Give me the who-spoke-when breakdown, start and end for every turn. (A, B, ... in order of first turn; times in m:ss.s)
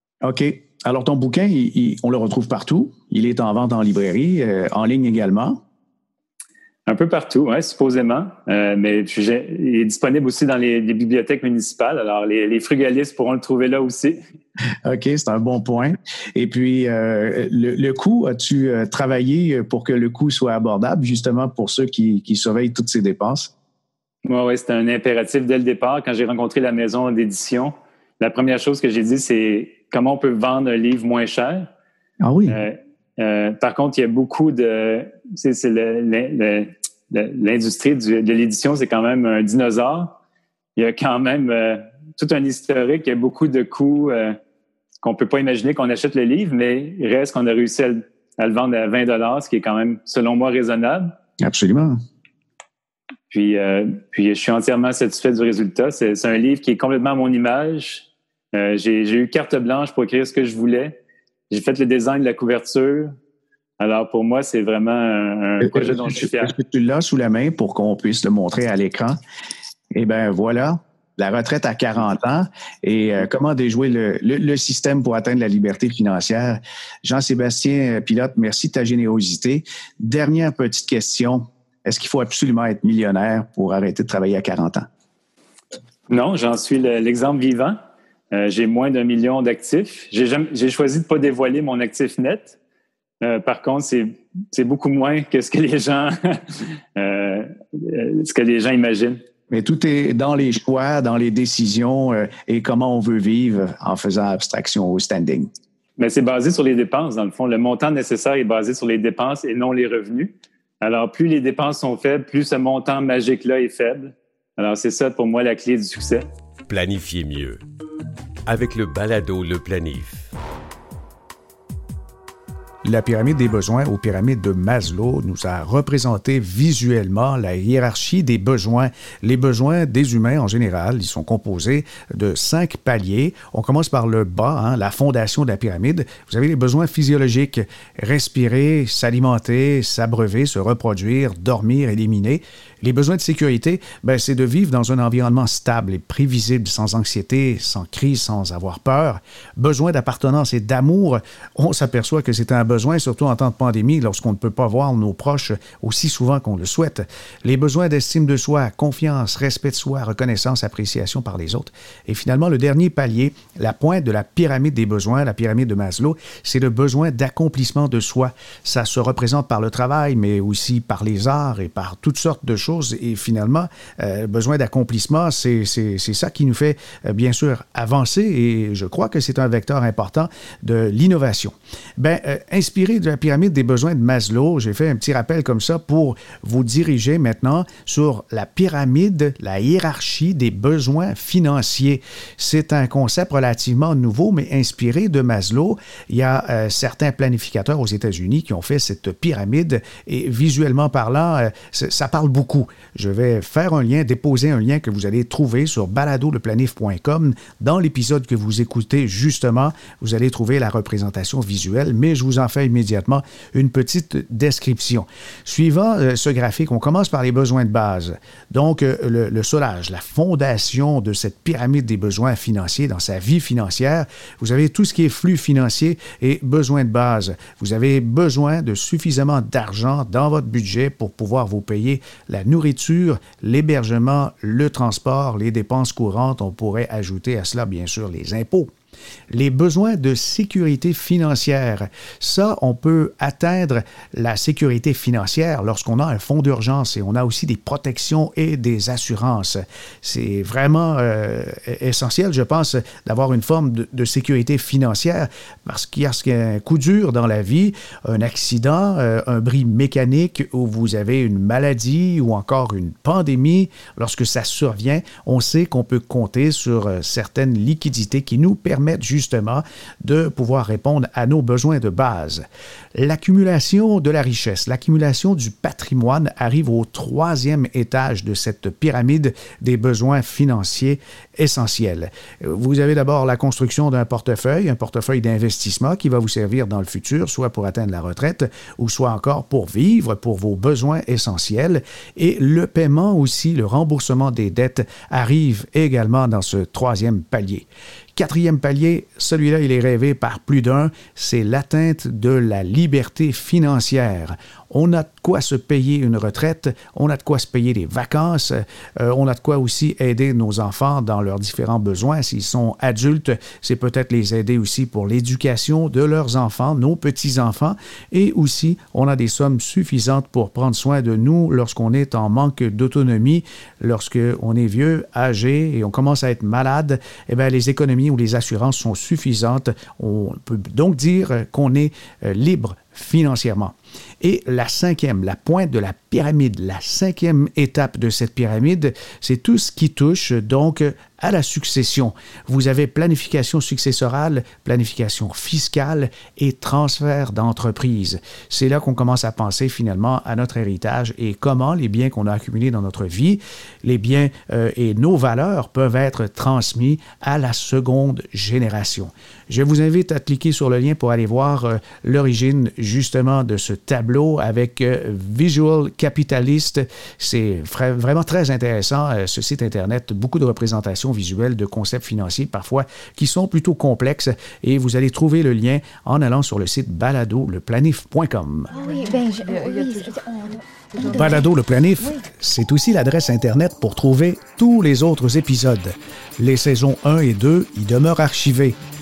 0:00.2-0:05.6 A
0:06.9-0:14.2 B
0:14.8-0:23.5 A
0:24.2-0:31.7 B
0:32.2-0:32.6 A
0:32.5-0:40.2 B
0:40.8-0:44.4 B
0:45.0-0:51.1 B
0:51.4-0:52.0 A
0:53.3-1:01.0 B
1:01.5-1:03.1 B
1:03.8-1:06.5 B
1:05.6-1:09.2 A
1:09.9-1:24.9 A
1:26.1-1:27.8 B
1:28.3-1:32.6 B
1:33.2-1:39.2 B
1:39.5-1:45.5 A
1:46.0-1:56.2 B
1:56.7-1:57.6 C
1:58.5-2:00.3 C
2:02.8-3:58.7 A
3:59.3-4:32.4 A
4:33.0-6:18.7 A
6:18.7-6:21.4 D
6:21.0-6:28.8 A